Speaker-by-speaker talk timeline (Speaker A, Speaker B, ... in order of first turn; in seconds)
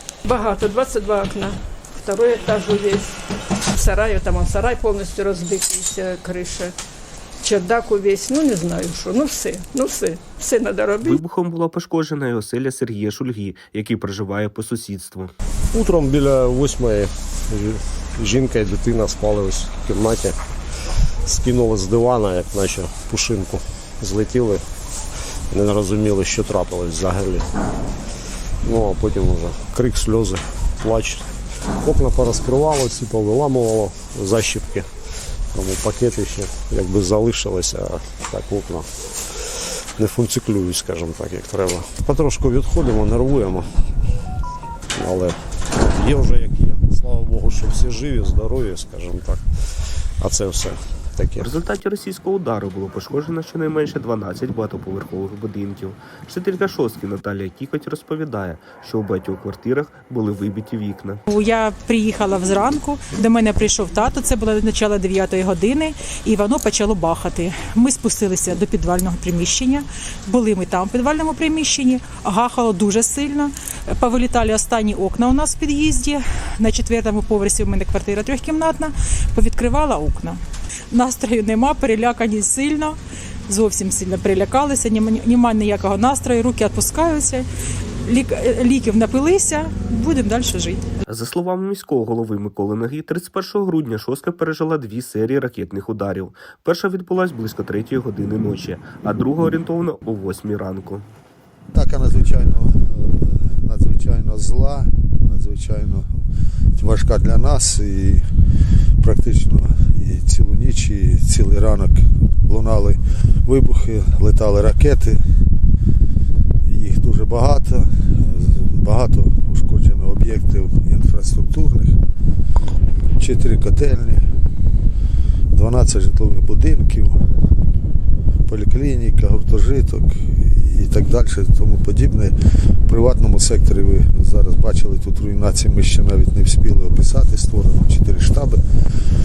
Speaker A: 0.2-3.2, 3.7-6.7, 7.4-11.2
Speaker B: 11.0-15.3, 51.4-61.2, 91.1-101.0
Speaker C: 15.7-20.4, 21.2-24.6, 25.5-27.5, 28.6-34.9, 35.5-43.7, 44.9-49.4, 50.2-51.5
Speaker D: 61.3-80.4, 80.9-83.0, 83.5-87.5, 88.0-90.8
Speaker E: 101.7-106.1, 106.8-108.2, 109.0-115.2, 116.6-122.0, 123.2-124.3, 125.5-127.3, 128.5-138.6